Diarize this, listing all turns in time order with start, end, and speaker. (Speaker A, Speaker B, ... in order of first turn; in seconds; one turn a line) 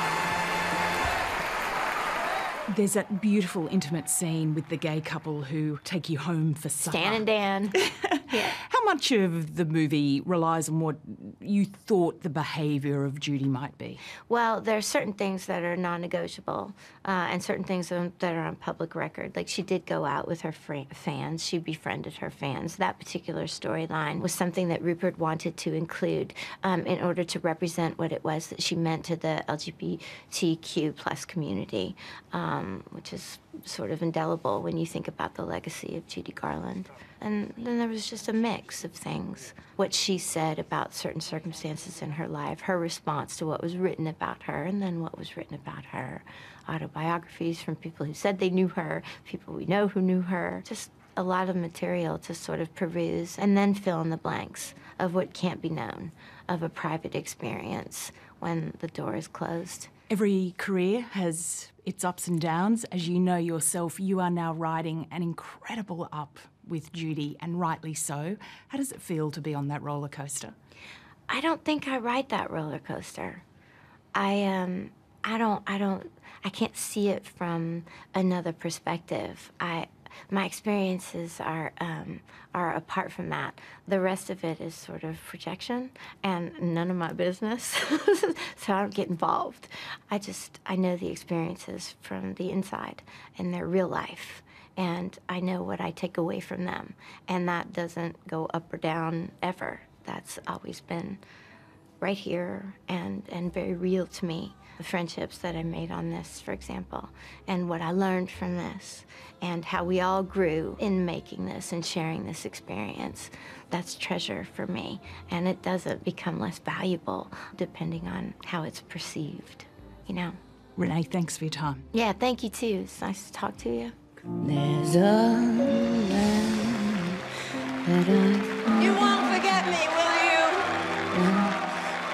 Speaker A: 2.7-7.3
Speaker B: 6.8-7.8
Speaker A: 7.8-14.0
Speaker B: 8.3-8.6
Speaker B: 14.3-59.9
Speaker A: 60.1-70.5
Speaker B: 71.3-73.4
Speaker B: 74.1-101.2
Speaker B: 102.0-120.4
Speaker A: 120.8-121.8
Speaker B: 121.9-123.9
Speaker C: 124.4-127.2
Speaker C: 127.8-130.4
Speaker B: 129.0-130.6
Speaker C: 131.0-131.7